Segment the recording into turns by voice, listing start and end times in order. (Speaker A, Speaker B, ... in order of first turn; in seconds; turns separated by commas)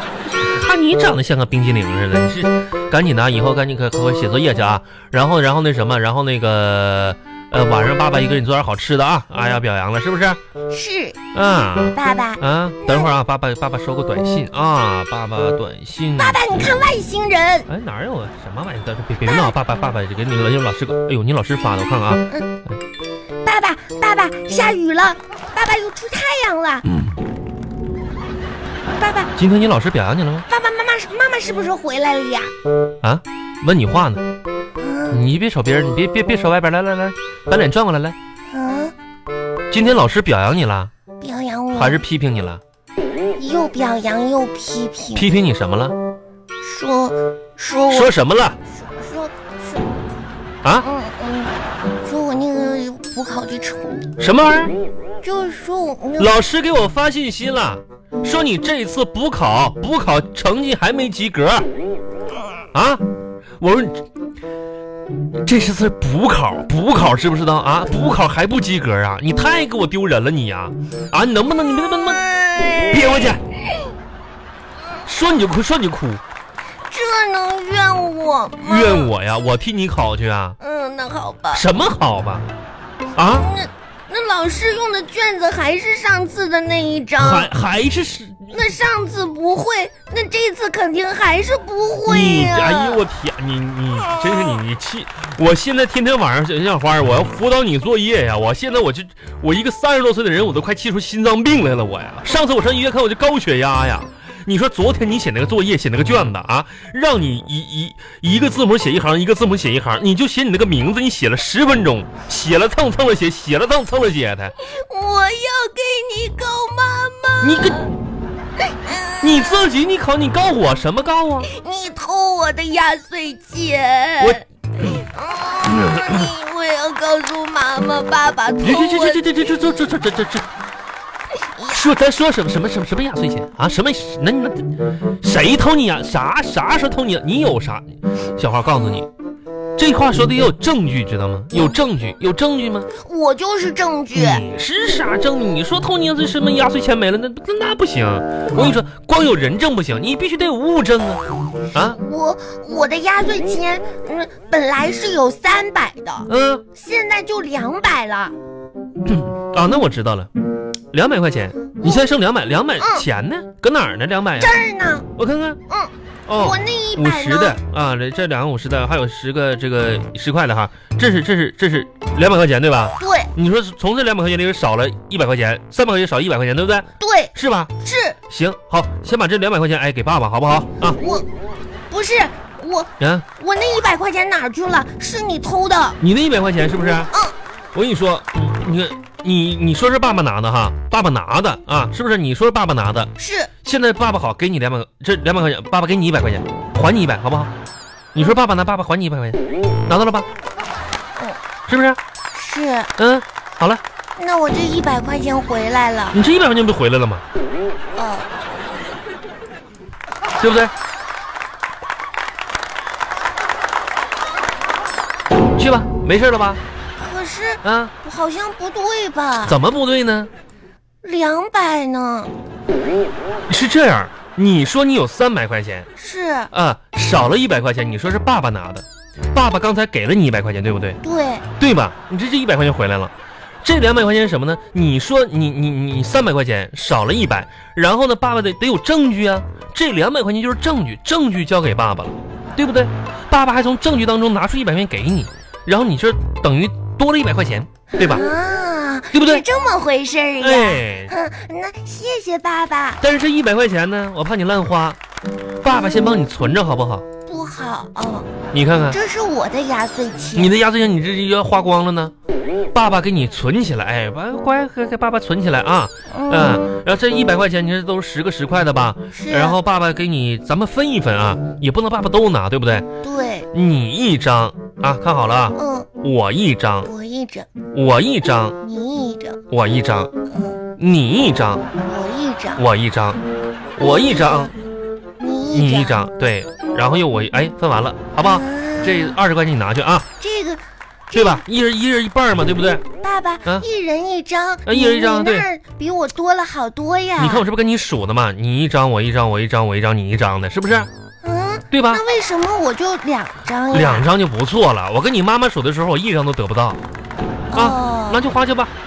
Speaker A: 0.3-10.4, Speaker B: 10.7-11.2, Speaker A: 11.3-16.4, Speaker B: 11.9-13.1, Speaker B: 16.2-17.7, Speaker A: 17.7-22.8, Speaker B: 19.2-19.5, Speaker B: 23.4-26.9, Speaker B: 29.0-29.3, Speaker A: 29.4-30.5, Speaker B: 30.5-32.5, Speaker A: 33.0-34.2, Speaker B: 34.8-35.2, Speaker A: 35.1-38.2, Speaker B: 38.5-38.9, Speaker A: 39.7-40.9, Speaker B: 41.2-42.0, Speaker A: 41.7-42.6, Speaker B: 43.4-45.3, Speaker A: 45.1-46.0, Speaker B: 46.6-48.1, Speaker A: 47.9-48.6, Speaker B: 48.7-49.8, Speaker B: 50.8-51.5, Speaker B: 52.0-54.1, Speaker A: 54.2-54.8, Speaker B: 55.2-56.4, Speaker A: 56.2-61.7, Speaker A: 62.7-63.0, Speaker A: 63.6-64.1, Speaker A: 65.4-72.2, Speaker B: 72.1-73.3, Speaker A: 72.9-73.4, Speaker A: 75.1-76.2, Speaker B: 76.9-79.1, Speaker A: 78.6-80.6, Speaker B: 80.6-81.7, Speaker A: 81.5-82.5, Speaker A: 83.2-83.5, Speaker B: 83.3-87.5, Speaker A: 87.2-88.5, Speaker B: 88.5-93.0, Speaker A: 92.0-114.6, Speaker B: 114.6-117.9, Speaker A: 117.4-117.9, Speaker B: 118.7-119.7, Speaker A: 119.2-121.5, Speaker B: 121.5-129.6, Speaker A: 125.8-126.2, Speaker A: 128.6-130.5, Speaker B: 131.6-131.9, Speaker A: 131.7-139.1, Speaker A: 139.8-142.9, Speaker B: 143.0-144.5, Speaker A: 144.1-151.2, Speaker B: 151.8-158.3, Speaker A: 156.3-156.6, Speaker A: 159.1-160.3, Speaker A: 160.9-164.6, Speaker B: 161.8-162.1, Speaker B: 162.8-163.1, Speaker B: 164.4-165.1, Speaker A: 165.2-165.6, Speaker B: 165.7-167.6, Speaker A: 166.3-177.7, Speaker B: 173.0-173.3, Speaker B: 177.0-178.2, Speaker A: 178.3-181.0, Speaker B: 180.9-181.3, Speaker B: 181.9-186.0, Speaker A: 183.0-183.3, Speaker A: 186.0-187.1, Speaker A: 187.7-193.1, Speaker B: 193.2-193.5, Speaker A: 193.6-197.5, Speaker A: 198.1-200.3, Speaker A: 201.7-202.0, Speaker B: 202.3-202.9, Speaker A: 203.0-203.8, Speaker B: 204.2-206.2, Speaker A: 206.1-207.2, Speaker B: 207.9-208.3, Speaker A: 210.4-210.7, Speaker A: 215.6-216.6, Speaker B: 217.0-219.6, Speaker A: 217.6-217.9, Speaker A: 219.5-220.3, Speaker B: 221.0-222.3, Speaker A: 223.5-225.9, Speaker B: 226.0-226.5, Speaker A: 226.5-231.0, Speaker B: 231.0-231.5, Speaker A: 231.6-248.3, Speaker B: 248.0-253.0, Speaker A: 249.1-249.4, Speaker A: 250.4-251.1, Speaker A: 253.0-255.0, Speaker A: 255.6-257.1, Speaker B: 257.3-258.3, Speaker A: 258.5-259.0, Speaker B: 258.9-260.5, Speaker A: 260.4-262.1, Speaker A: 262.7-272.9, Speaker B: 266.1-266.6, Speaker B: 269.1-269.6, Speaker B: 273.0-273.5, Speaker A: 273.5-276.9, Speaker B: 275.6-275.9, Speaker B: 276.9-277.5, Speaker A: 277.7-278.6, Speaker B: 278.6-279.4, Speaker A: 279.5-280.1, Speaker B: 280.3-280.6, Speaker A: 280.8-281.7, Speaker B: 281.8-282.6, Speaker A: 282.6-283.2, Speaker A: 283.8-284.5, Speaker B: 283.8-284.5, Speaker B: 285.2-286.0, Speaker A: 285.5-290.1, Speaker B: 288.2-289.2, Speaker B: 290.2-291.4, Speaker A: 291.1-292.8, Speaker B: 293.0-297.5, Speaker A: 294.6-295.5, Speaker A: 297.2-300.9, Speaker B: 301.2-304.1, Speaker A: 301.7-302.0, Speaker A: 303.7-306.8, Speaker B: 307.5-308.2, Speaker A: 307.5-308.7